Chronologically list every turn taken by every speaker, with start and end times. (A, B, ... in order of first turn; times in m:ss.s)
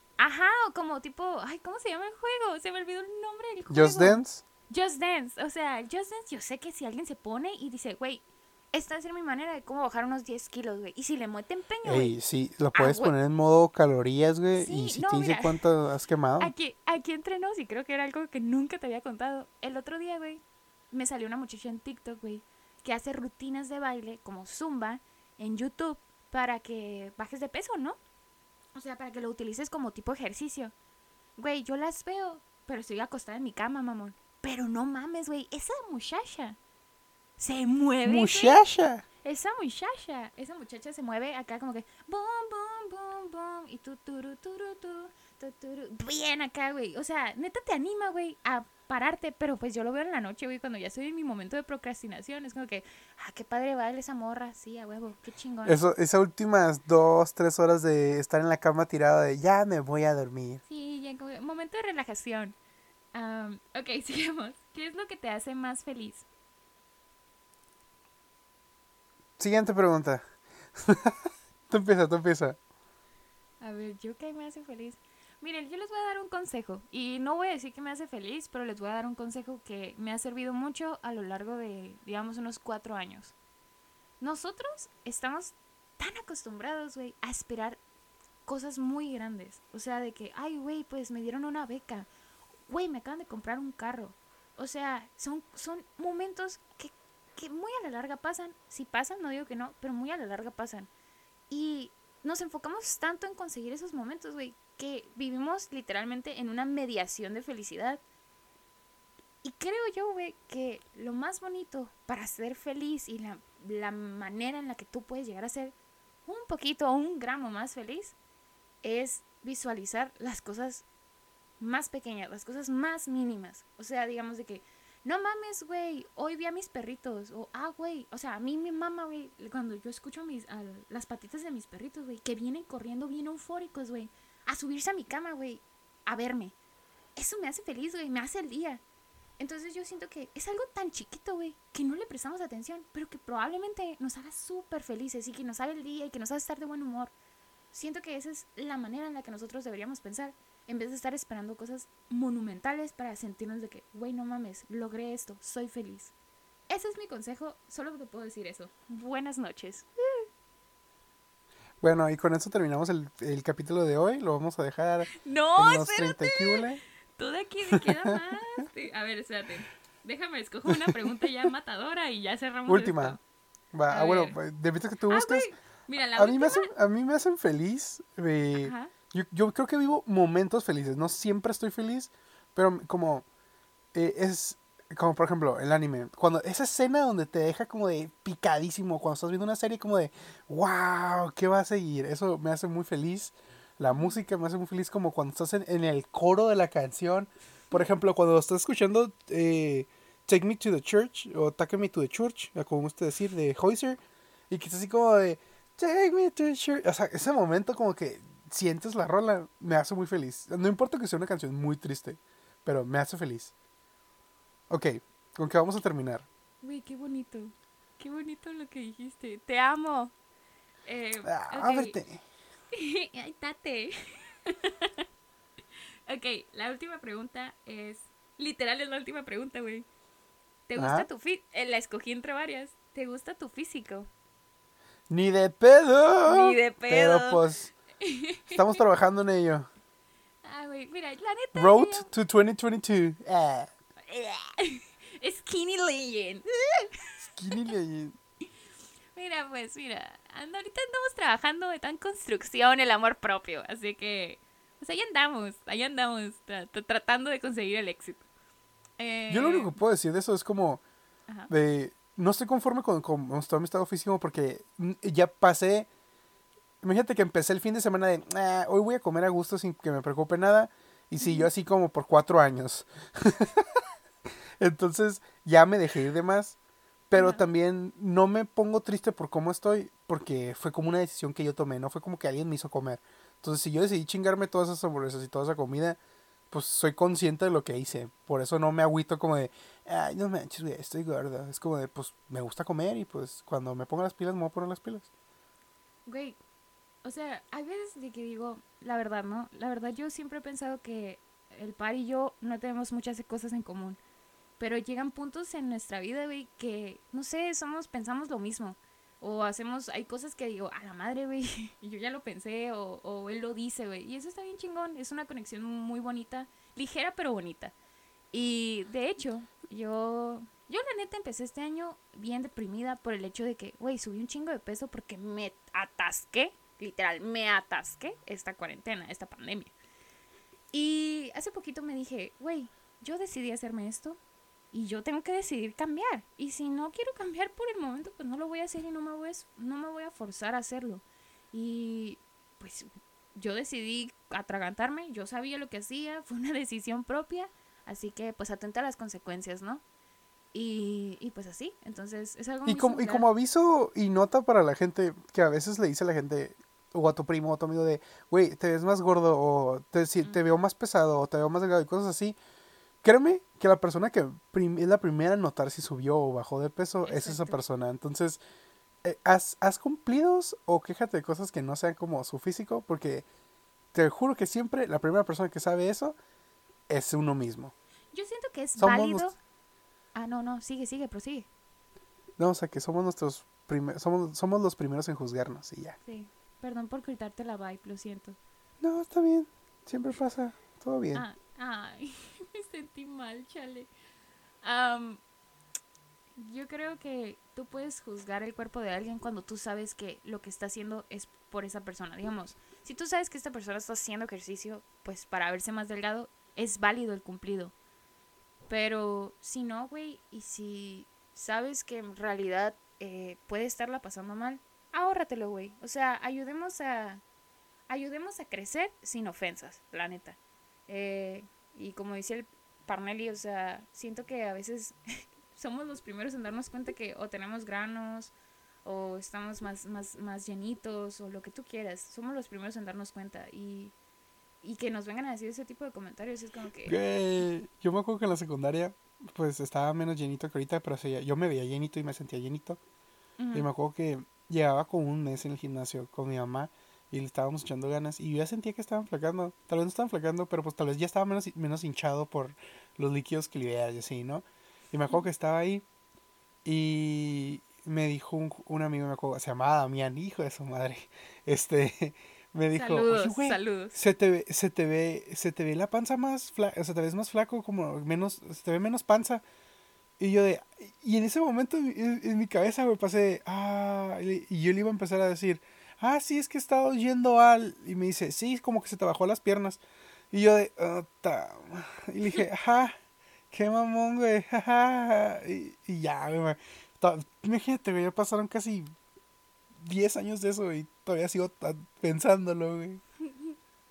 0:00.2-0:12.1 A
0:03.7-0:04.4 B
0:11.8-0:16.5 B
0:12.7-0:13.1 A
0:14.6-0:15.6 A
0:16.4-0:20.4 A
0:20.9-0:28.0 A
0:28.7-0:30.7 A
0:31.4-0:36.6 A
0:37.4-0:38.6 A
0:38.0-0:39.0 B
0:39.2-0:55.8 A
0:55.6-1:00.6 B
1:00.7-1:02.5 A
1:03.1-1:06.2 A
1:09.4-1:10.2 B
1:10.7-1:12.6 B
1:13.6-1:23.3 A
1:24.2-1:27.8 A
1:28.5-1:32.1 A
1:32.7-1:40.9 A
1:41.5-1:48.0 A
1:49.4-1:55.7 A
1:56.2-1:58.1 A
1:58.8-2:00.8 A
2:01.6-2:16.5 A
2:17.2-2:18.8 A
2:19.4-2:27.1 A
2:27.7-2:36.1 A
2:36.7-2:40.2 A
2:41.8-2:46.8 B
2:45.1-2:46.6 A
2:47.2-2:53.2 A
2:50.7-2:51.5 B
2:52.7-2:53.2 B
2:53.7-2:55.5 B
2:53.9-2:54.4 A
2:55.1-2:56.7 A
2:56.2-3:03.2 B
2:58.6-2:58.9 A
3:03.9-3:24.0 B
3:13.9-3:14.2 A
3:24.5-3:33.5 B
3:34.7-3:36.2 B
3:36.6-3:40.1 A
3:40.8-3:42.0 A
3:41.2-3:42.2 B
3:42.7-3:45.0 A
3:46.1-3:49.8 A
3:50.7-3:54.1 A
3:50.8-3:51.1 B
3:55.1-3:57.7 B
3:56.2-3:57.4 A
3:58.0-3:58.8 A
3:58.5-3:59.7 B
4:00.4-4:02.1 A
4:01.5-4:03.7 B
4:04.1-4:07.2 A
4:07.4-4:08.2 B
4:09.1-4:18.2 A
4:19.0-4:19.7 A
4:19.3-4:20.8 B
4:21.5-4:25.9 B
4:26.8-4:33.8 B
4:31.2-4:31.5 A
4:34.6-4:36.6 B
4:37.1-4:46.0 B
4:37.1-4:37.4 A
4:46.5-4:55.1 B
4:56.1-4:56.4 A
4:57.0-5:04.0 A
5:04.6-5:17.7 A
5:18.3-5:29.7 A
5:30.7-5:34.2 A
5:34.7-5:49.8 A
5:50.5-5:53.2 A
5:52.6-6:02.4 B
6:03.0-6:08.4 B
6:07.0-6:07.6 A
6:09.0-6:13.2 B
6:13.9-6:16.1 B
6:16.9-6:17.7 B
6:18.1-6:19.4 A
6:18.8-6:19.3 B
6:20.1-6:21.5 A
6:22.4-6:26.0 B
6:26.0-6:28.4 A
6:28.8-6:31.2 B
6:31.1-6:33.9 A
6:34.6-6:35.2 A
6:36.4-6:47.7 A
6:48.7-6:57.2 A
6:57.9-7:05.0 A
7:05.5-7:08.3 A
7:08.8-7:13.9 A
7:14.6-7:17.0 A
7:16.8-7:22.8 B
7:23.4-7:23.7 A
7:23.5-7:35.8 B
7:36.6-7:49.4 B
7:42.7-7:44.0 A
7:50.2-8:02.9 B
8:03.5-8:08.8 B
8:09.8-8:13.0 B